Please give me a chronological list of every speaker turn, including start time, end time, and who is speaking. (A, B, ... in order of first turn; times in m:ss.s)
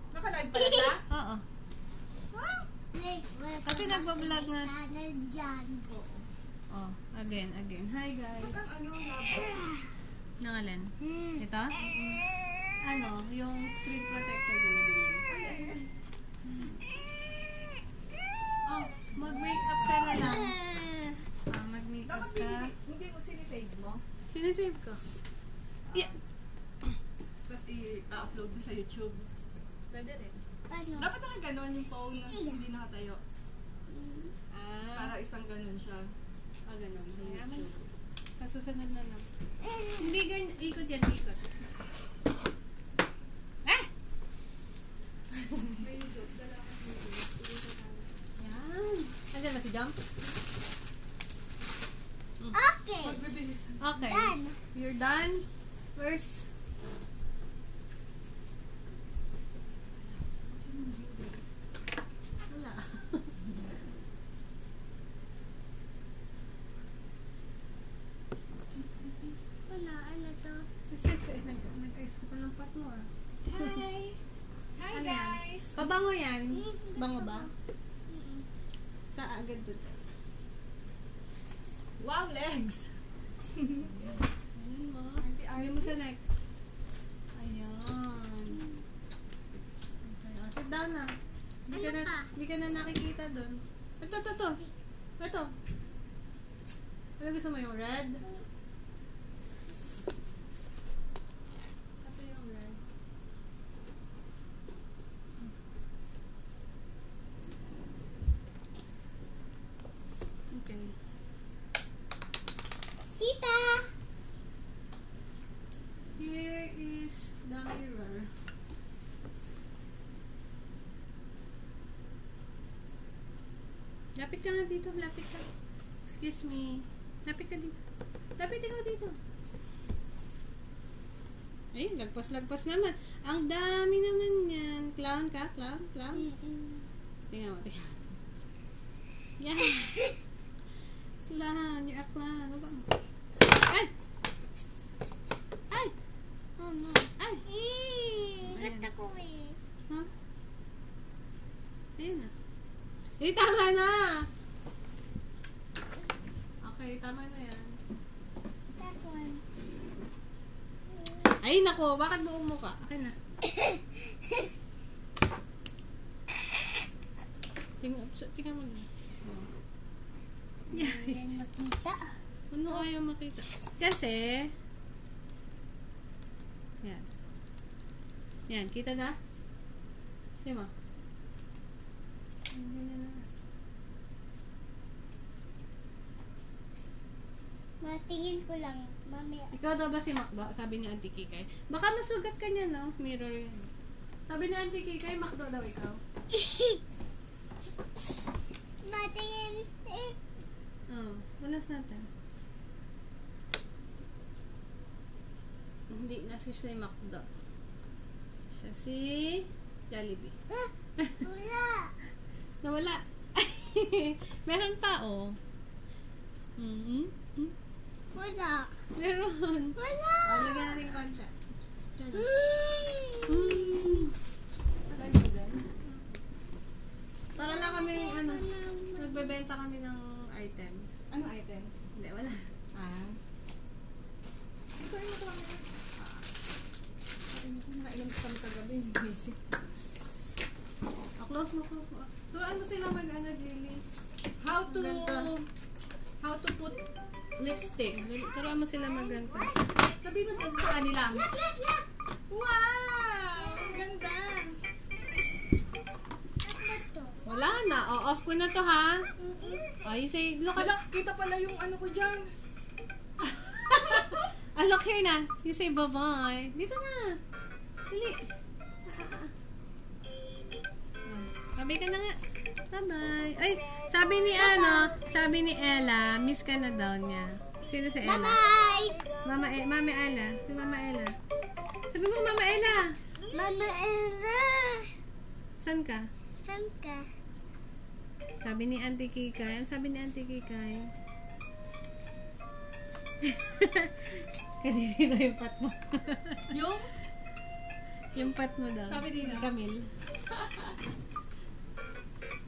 0:00.1-0:01.0 A
0:00.5-0:01.0 B
0:01.1-0:01.4 C
0:02.3-0:02.7 A
0:02.9-0:05.9 B
0:03.6-0:04.7 C
0:05.9-0:06.3 A
0:06.7-0:08.6 C
0:08.4-0:09.7 A
0:10.4-0:12.2 C
0:11.0-0:12.7 B
0:12.8-0:15.3 C
0:15.3-0:15.9 A
0:16.5-0:16.8 C
0:18.6-0:20.5 C
0:19.1-0:20.2 A
0:20.0-0:21.3 B
0:21.5-0:22.7 C
0:22.0-0:24.0 A
0:24.3-0:25.0 C
0:27.5-0:29.3 A
0:29.9-0:30.4 C
0:30.7-0:31.1 B
0:31.0-0:33.2 A
0:32.1-0:32.6 B
0:33.9-0:34.3 B
0:34.5-0:35.2 C
0:34.9-0:36.1 A
0:36.7-0:37.7 C
0:37.1-0:37.8 A
0:38.4-0:39.3 C
0:39.6-0:40.1 B
0:40.0-0:41.5 C
0:45.7-0:48.1 A
0:48.4-0:50.0 C
0:52.5-0:53.4 B
0:53.0-0:53.9 A
0:53.8-0:56.5 C
0:54.0-0:54.6 B
1:00.0-1:01.5 A
1:02.5-1:03.3 C
1:08.8-1:09.3 A
1:09.7-1:10.7 B
1:10.9-1:13.1 C
1:13.4-1:14.2 A
1:14.8-1:15.8 A
1:14.9-1:17.5 C
1:16.5-1:17.5 B
1:18.1-1:18.5 B
1:19.1-1:20.0 C
1:22.0-1:22.8 A
1:23.5-1:23.9 A
1:24.0-1:26.2 C
1:25.2-1:26.0 A
1:27.4-1:28.6 C
1:30.0-1:31.1 C
1:31.7-1:34.6 C
1:31.7-1:32.3 B
1:35.2-1:35.5 C
1:37.2-1:38.2 C
1:42.0-1:42.8 C
1:50.5-1:50.9 C
1:53.2-1:53.9 B
1:56.2-1:58.3 C
2:04.2-2:05.4 C
2:06.1-2:07.8 C
2:08.4-2:09.1 C
2:11.7-2:16.3 C
2:16.1-2:16.9 B
2:17.3-2:18.0 C
2:19.4-2:20.0 C
2:21.3-2:22.9 C
2:23.6-2:23.9 C
2:26.6-2:27.4 C
2:27.5-2:29.6 B
2:28.5-2:28.9 C
2:32.0-2:32.3 C
2:33.2-2:34.2 C
2:36.6-2:37.8 C
2:38.8-2:39.4 B
2:40.9-2:41.4 B
2:41.4-2:43.1 C
2:43.5-2:44.5 B
2:47.8-2:49.5 C
2:50.7-2:52.0 B
2:50.7-2:51.2 C
2:52.5-2:54.5 C
2:58.5-2:59.2 C
3:00.4-3:00.7 C
3:02.5-3:03.3 C
3:07.8-3:09.5 B
3:09.5-3:13.7 C
3:14.3-3:16.0 C
3:16.3-3:16.8 B
3:18.8-3:20.2 B
3:20.9-3:22.1 C
3:25.9-3:27.3 C
3:28.5-3:30.3 C
3:30.5-3:31.9 B
3:32.6-3:35.4 C
3:36.6-3:37.5 C
3:38.1-3:38.7 B
3:39.0-3:41.3 C
3:39.8-3:40.8 B
3:42.0-3:42.3 C
3:42.1-3:44.0 B
3:43.3-3:44.1 C
3:44.9-3:45.6 A
3:45.9-3:46.1 C
3:47.4-3:49.4 B
3:47.4-3:48.5 C
3:49.0-3:50.9 C
3:51.1-3:51.8 A
3:52.0-3:52.5 C
3:52.7-3:53.2 A
3:54.8-3:55.6 A
3:56.0-3:56.2 C
3:57.3-3:59.4 A
4:01.2-4:03.8 C
4:04.4-4:05.4 A
4:04.7-4:05.3 C
4:06.2-4:06.8 A
4:07.5-4:09.7 C
4:09.0-4:09.4 B
4:10.0-4:11.2 A
4:11.1-4:11.8 B
4:12.3-4:14.6 A
4:13.4-4:13.8 B
4:16.4-4:17.2 B
4:17.3-4:19.0 C
4:19.2-4:19.6 B
4:19.8-4:20.7 C
4:20.6-4:22.3 A
4:23.7-4:27.1 C
4:23.7-4:24.2 A
4:27.9-4:28.2 C
4:28.9-4:29.3 C
4:31.1-4:32.2 C
4:32.7-4:38.4 C
4:34.4-4:34.9 B
4:38.0-4:39.1 B
4:39.2-4:41.1 C
4:41.9-4:43.0 C
4:43.3-4:44.9 B
4:45.6-4:46.0 C
4:46.4-4:47.1 B
4:48.4-4:50.9 C
4:53.2-4:56.5 C
4:56.5-4:56.9 A
4:58.1-4:59.8 C
4:58.9-4:59.5 A
5:00.3-5:00.8 A